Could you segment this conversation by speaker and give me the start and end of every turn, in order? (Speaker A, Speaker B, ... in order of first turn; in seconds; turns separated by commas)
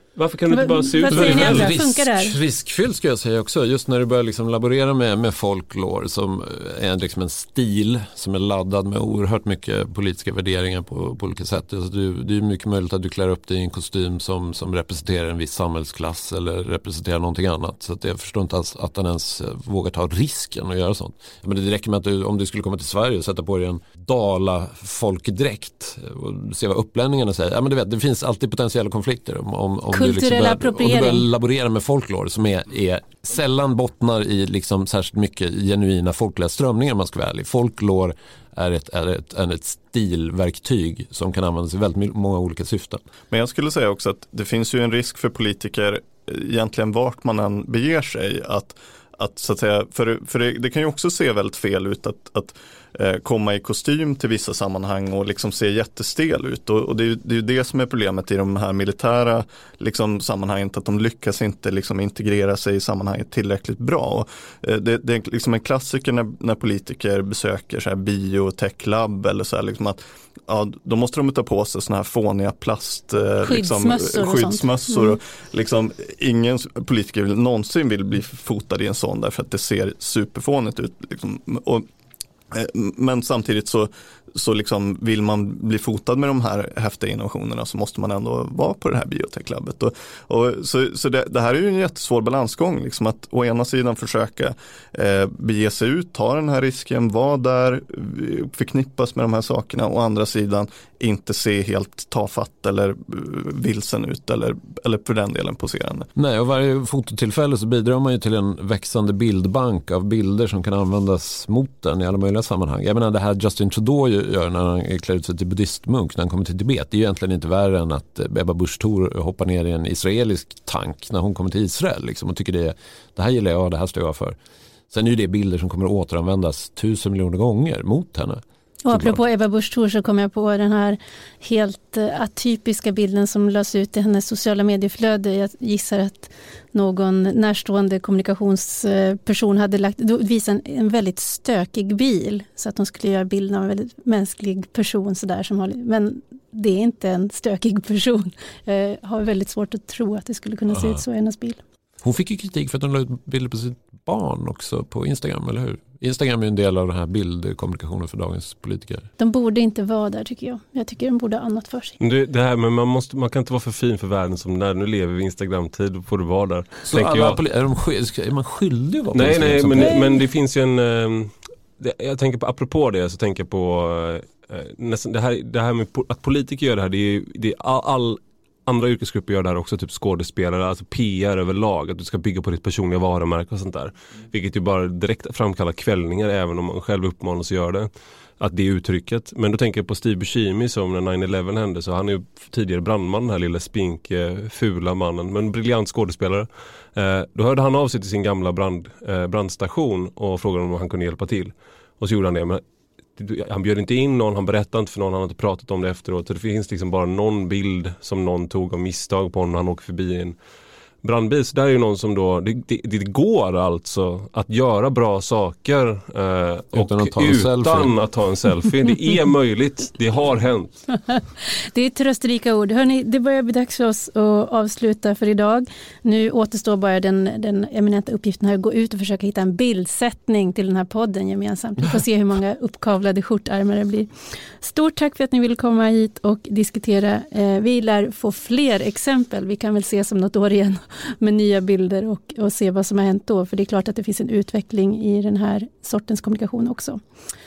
Speaker A: 0.2-1.8, Speaker B: 0.5-2.4, Speaker C: 1.1-43.0, Speaker B: 29.9-31.3, Speaker D: 43.3-81.9, Speaker B: 73.4-75.2, Speaker D: 82.5-106.1, Speaker C: 106.2-124.4, Speaker C: 124.9-129.2, Speaker B: 128.8-151.6, Speaker C: 152.0-159.1, Speaker B: 159.2-162.0, Speaker A: 162.0-167.4, Speaker C: 166.8-170.0, Speaker A: 169.1-202.6, Speaker B: 169.7-170.2, Speaker A: 203.2-210.4, Speaker A: 211.0-220.9, Speaker C: 216.7-217.9, Speaker B: 221.1-247.0